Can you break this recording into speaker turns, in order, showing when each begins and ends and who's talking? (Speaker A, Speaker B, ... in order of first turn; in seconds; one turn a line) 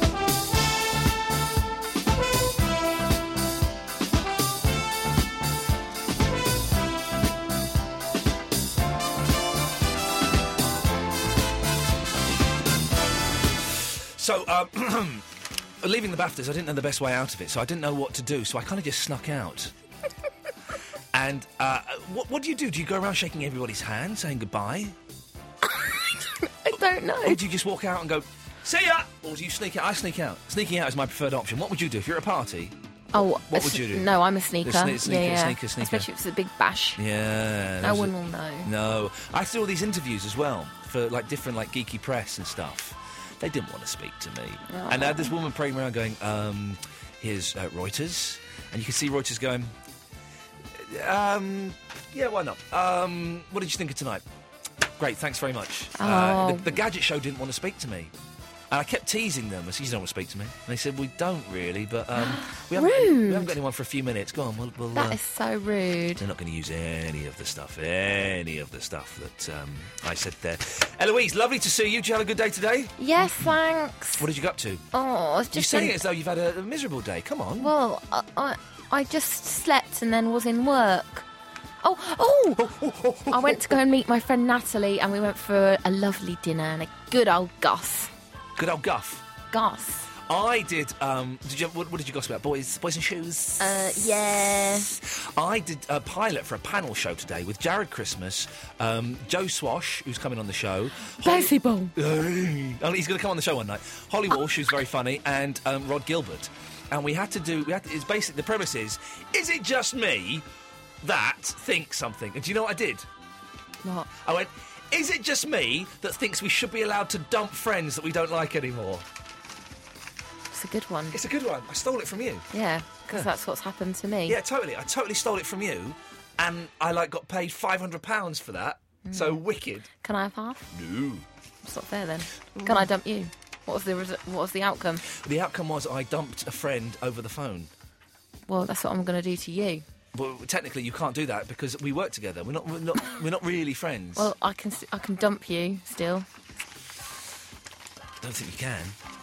Speaker A: 14.2-15.2
Speaker A: 15.8-19.7
Speaker A: 21.1-24.9
Speaker B: 25.7-27.4
Speaker A: 27.2-32.7
Speaker B: 33.1-37.0
Speaker A: 33.4-34.1
Speaker A: 34.6-36.1
Speaker A: 37.0-49.7
Speaker B: 37.8-38.7
Speaker B: 44.7-45.3
Speaker A: 50.8-54.2
Speaker A: 55.0-58.1
Speaker B: 56.0-56.7
Speaker A: 58.7-65.2
Speaker B: 62.1-63.5
Speaker B: 64.9-66.2
Speaker A: 66.2-73.5
Speaker B: 73.0-74.3
Speaker A: 74.2-74.8
Speaker B: 74.9-76.0
Speaker A: 75.5-77.7
Speaker B: 77.6-81.3
Speaker B: 81.8-82.7
Speaker A: 82.6-83.7
Speaker B: 83.3-88.1
Speaker A: 88.6-89.2
Speaker B: 89.5-90.1
Speaker A: 90.3-94.0
Speaker B: 93.6-95.0
Speaker A: 94.9-110.4
Speaker B: 101.2-101.9
Speaker A: 111.0-113.0
Speaker B: 113.8-114.1
Speaker A: 114.2-119.0
Speaker B: 120.5-121.2
Speaker A: 121.1-122.4
Speaker B: 122.5-124.4
Speaker A: 124.3-129.9
Speaker B: 129.1-129.4
Speaker B: 130.0-130.7
Speaker A: 130.7-131.2
Speaker B: 131.6-135.0
Speaker A: 132.6-132.9
Speaker A: 135.1-137.7
Speaker B: 138.5-139.8
Speaker A: 140.1-144.3
Speaker B: 144.2-146.2
Speaker A: 148.2-148.9